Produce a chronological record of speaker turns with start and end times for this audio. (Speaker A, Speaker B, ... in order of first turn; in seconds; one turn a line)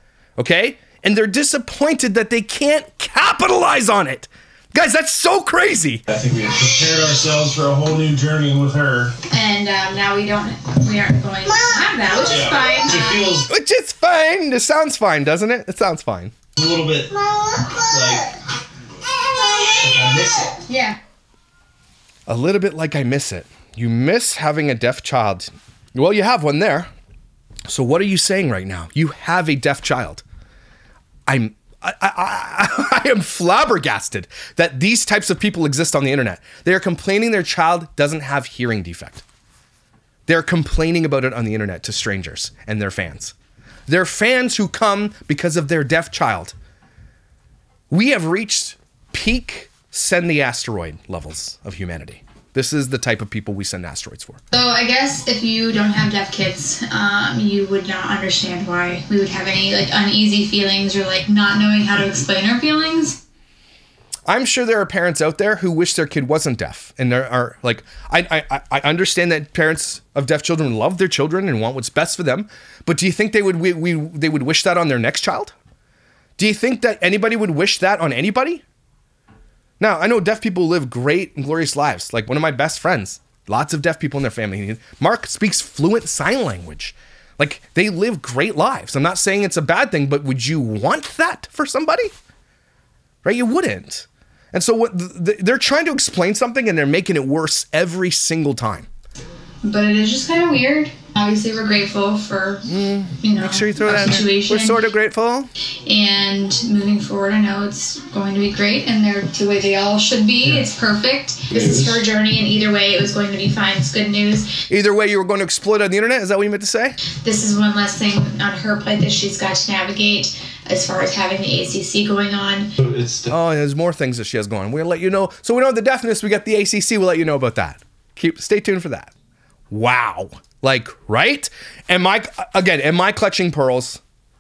Speaker A: 0.4-6.0
Speaker B: 6.1-9.2
Speaker C: 9.3-13.3
Speaker B: 12.2-13.5
Speaker A: 13.5-16.3
Speaker B: 16.6-18.4
Speaker B: 19.6-20.6
Speaker C: 20.7-21.0
Speaker A: 22.3-26.9
Speaker A: 27.7-30.2
Speaker A: 31.3-39.2
Speaker A: 40.3-43.4
Speaker A: 43.9-46.6
Speaker A: 47.9-54.4
Speaker C: 54.5-63.2
Speaker A: 64.3-75.5
Speaker A: 76.4-78.6
Speaker A: 79.8-92.1
Speaker A: 93.2-98.9
Speaker C: 99.6-102.7
Speaker A: 102.7-105.5
Speaker C: 103.2-104.8
Speaker C: 105.8-114.6
Speaker B: 111.5-112.0
Speaker A: 114.7-117.0
Speaker C: 117.2-122.7
Speaker B: 122.8-123.3
Speaker A: 123.3-129.1
Speaker A: 129.7-134.0